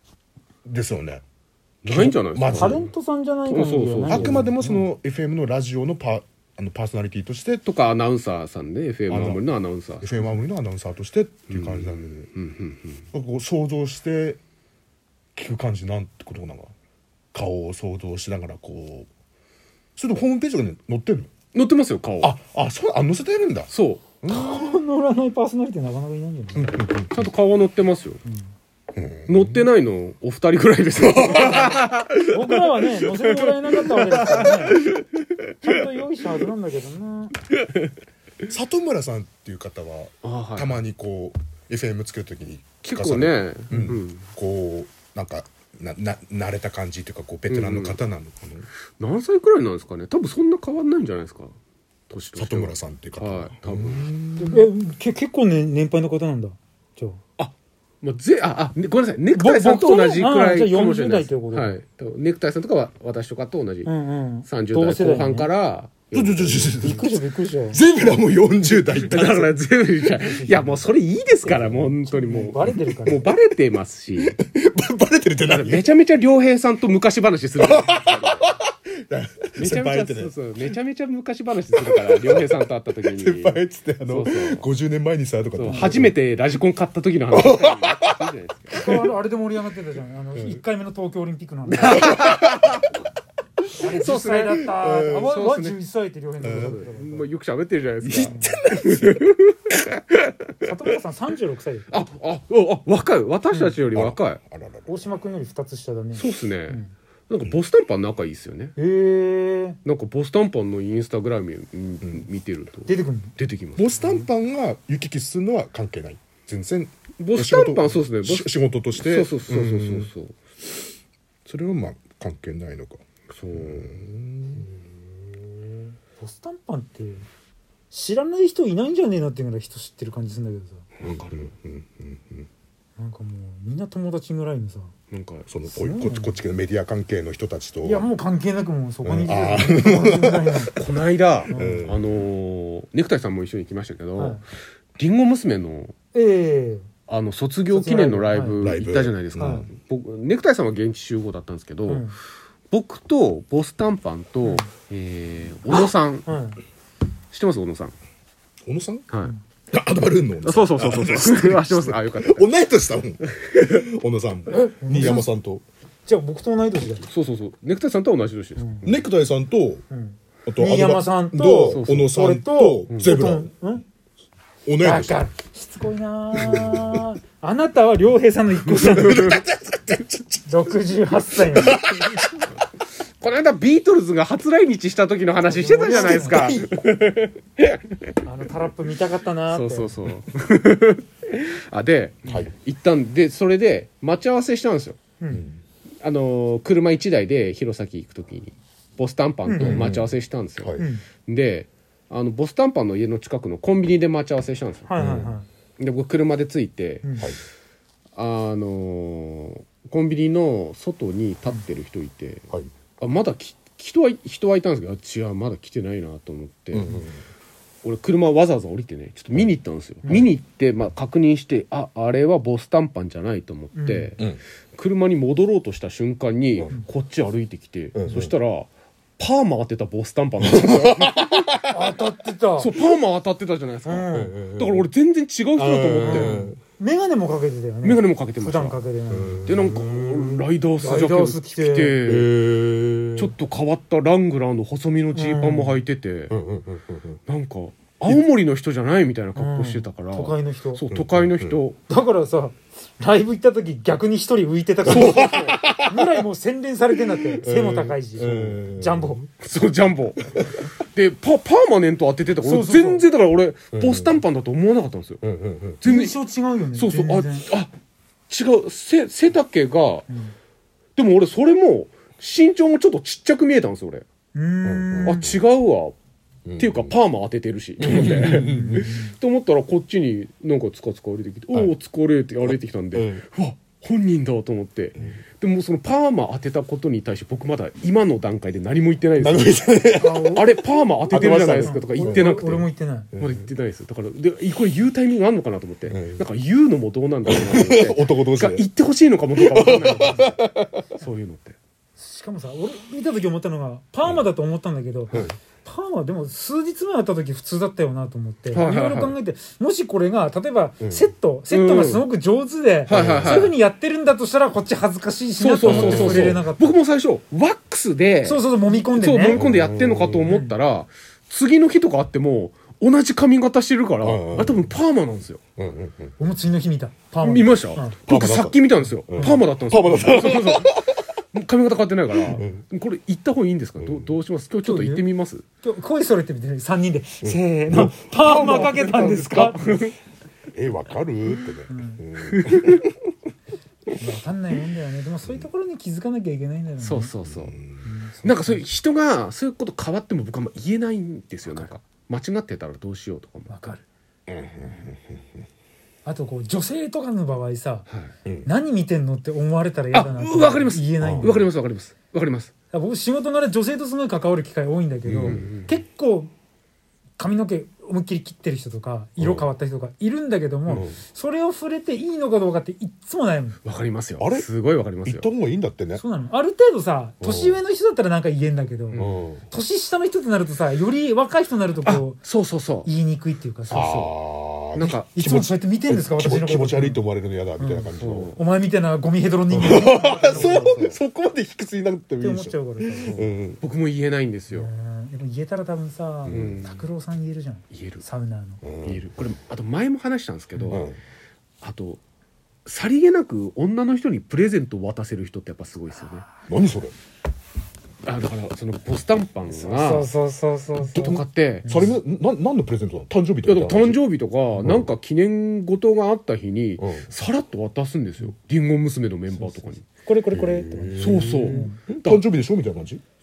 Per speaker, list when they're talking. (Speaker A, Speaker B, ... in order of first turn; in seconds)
Speaker A: 0.7-1.2, 1.9-2.9, 4.1-7.6, 9.1-9.4, 10.0-12.3, 13.1-14.4, 15.4-16.7, 17.3-19.1, 20.0-21.3, 22.2-23.7, 24.2-24.8, 26.7-27.3, 28.9-29.7, 31.0-31.8, 34.2-34.5, 38.5-48.7, 52.4-54.6, 66.1-69.5, 71.5-72.0, 72.6-73.0, 74.2-75.8, 77.6-80.7, 81.8-86.1, 87.3-88.3, 90.3-90.6, 91.8-92.7, 94.6-95.3, 96.4-96.8, 98.0-99.3, 103.9-104.9, 113.8-120.1, 121.5-124.7, 131.0-132.5, 135.5-138.1, 139.0-140.8, 141.5-142.2, 148.6-149.7, 158.7-159.1, 159.7-165.6, 168.8-169.8, 170.5-173.5, 174.7-175.2, 176.4-177.1, 178.6-182.5, 185.9-186.7, 192.3-192.5, 195.3-195.6, 199.6-200.9, 205.0-205.4, 216.7-217.2, 227.9-228.3, 230.4-231.8, 234.1-234.9, 235.6-236.6, 239.1-240.5, 242.0-243.3, 246.3-247.2, 250.9-251.6, 254.9-256.1, 257.3-259.3, 260.3-260.7, 263.7-264.2, 265.2-265.8, 274.6-275.4, 276.5-276.9, 277.8-278.9, 282.5-283.2, 289.2-290.4, 291.1-292.3, 293.1-293.5, 295.9-296.2, 297.3-298.6, 299.4-300.6, 310.8-311.1, 312.9-313.5, 315.6-316.5, 319.3-320.3, 324.0-324.7, 325.6-326.1, 328.1-330.9, 332.2-332.6, 333.8-334.1, 337.2-339.5, 340.5-342.9, 347.2-347.9, 354.3-355.2, 361.0-361.5, 365.1-365.5, 369.2-369.5, 370.7-371.0, 374.2-374.5, 375.0-376.0, 377.2-377.6, 379.0-379.4, 383.7-388.3, 389.5-393.6, 396.3-396.7, 398.6-399.0, 400.7-401.0, 406.5-406.9, 410.9-414.0, 414.6-414.9, 416.8-417.1, 420.3-423.0
Speaker B: 1.8-2.9, 3.5-4.5, 7.7-10.1, 11.5-13.1, 21.5-22.3, 23.7-24.0, 26.6-28.2, 29.3-32.3, 33.2-35.5, 37.7-37.9, 40.2-40.8, 42.9-44.2, 47.5-48.0, 49.0-51.5, 52.1-54.1, 57.4-63.9, 64.5-66.8, 68.7-74.4, 75.4-78.5, 79.6-84.7, 85.6-88.9, 91.7-92.9, 94.0-94.7, 95.2-95.8, 96.4-100.5, 101.9-104.4, 106.1-108.7, 109.8-114.2, 117.2-120.3, 123.3-124.0, 131.0-131.4, 135.1-135.5, 140.8-144.4, 145.0-145.9, 147.1-152.1, 152.7-156.3, 157.3-157.9, 160.4-162.5, 167.1-169.0, 171.7-172.1, 172.9-173.2, 178.9-179.4, 183.2-187.8, 189.5-195.0, 196.0-204.9, 205.8-207.1, 208.2-212.5, 213.0-216.9, 217.8-231.5, 232.6-236.5, 237.8-238.8, 239.4-242.4, 243.2-246.3, 247.3-251.8, 254.8-255.7, 259.4-260.2, 260.9-265.2, 265.8-266.2, 266.7-267.7, 268.3-270.1, 271.0-274.0, 275.0-275.9, 276.6-289.5, 290.3-301.6, 308.5-309.2, 311.5-312.0, 312.9-313.6, 315.4-325.4, 327.2-335.4, 338.3-339.9, 342.3-342.9, 346.8-347.6, 348.2-353.5, 359.9-362.5, 365.1-365.8, 373.6-375.3, 378.9-379.2, 381.9-382.9, 383.7-384.2, 384.7-385.1, 387.9-388.4, 390.0-391.0, 393.1-394.7, 396.3-396.9, 397.7-398.0, 398.8-400.9, 401.6-402.0, 402.7-406.2, 408.1-410.1, 410.9-411.9, 413.5-419.8, 421.0-422.2
Speaker C: 2.5-4.9, 24.3-26.9, 28.3-28.5, 31.2-34.9, 35.6-37.4, 54.4-57.2, 59.3-61.8, 63.9-65.5, 66.7-67.8, 70.2-70.8, 72.1-73.3, 88.7-92.1, 93.8-97.3, 98.2-98.5, 100.6-102.0, 104.9-106.9, 108.8-109.8, 112.9-113.3, 125.7-127.3, 127.9-130.8, 133.0-134.9, 135.7-136.4, 137.8-140.7, 141.5-141.9, 144.2-144.4, 146.1-146.9, 147.7-148.6, 149.4-149.7, 151.9-152.2, 154.4-154.7, 156.3-156.6, 164.5-165.3, 166.1-167.1, 168.6-168.8, 169.9-173.8, 174.8-179.3, 180.5-182.0, 185.5-186.5, 188.2-189.9, 195.2-195.5, 199.5-199.9, 200.8-201.0, 204.9-205.5, 207.0-207.3, 223.8-224.1, 231.7-232.7, 233.8-234.4, 236.0-239.4, 240.8-242.0, 245.1-245.8, 249.4-250.8, 251.9-259.2, 262.4-263.1, 265.9-267.5, 270.1-270.4, 274.3-275.2, 278.2-279.1, 290.0-290.5, 291.1-293.1, 302.0-316.8, 318.2-319.4, 320.3-320.6, 326.2-328.0, 329.2-329.4, 334.6-335.1, 335.6-339.8, 341.7-342.0, 344.0-347.1, 347.8-348.7, 353.5-353.8, 356.1-357.9, 358.4-361.4, 362.7-366.3, 367.2-373.6, 376.0-382.2, 382.9-383.9, 385.1-387.0, 387.6-390.9, 392.2-393.2, 394.5-398.6, 409.5-412.0, 419.4-421.8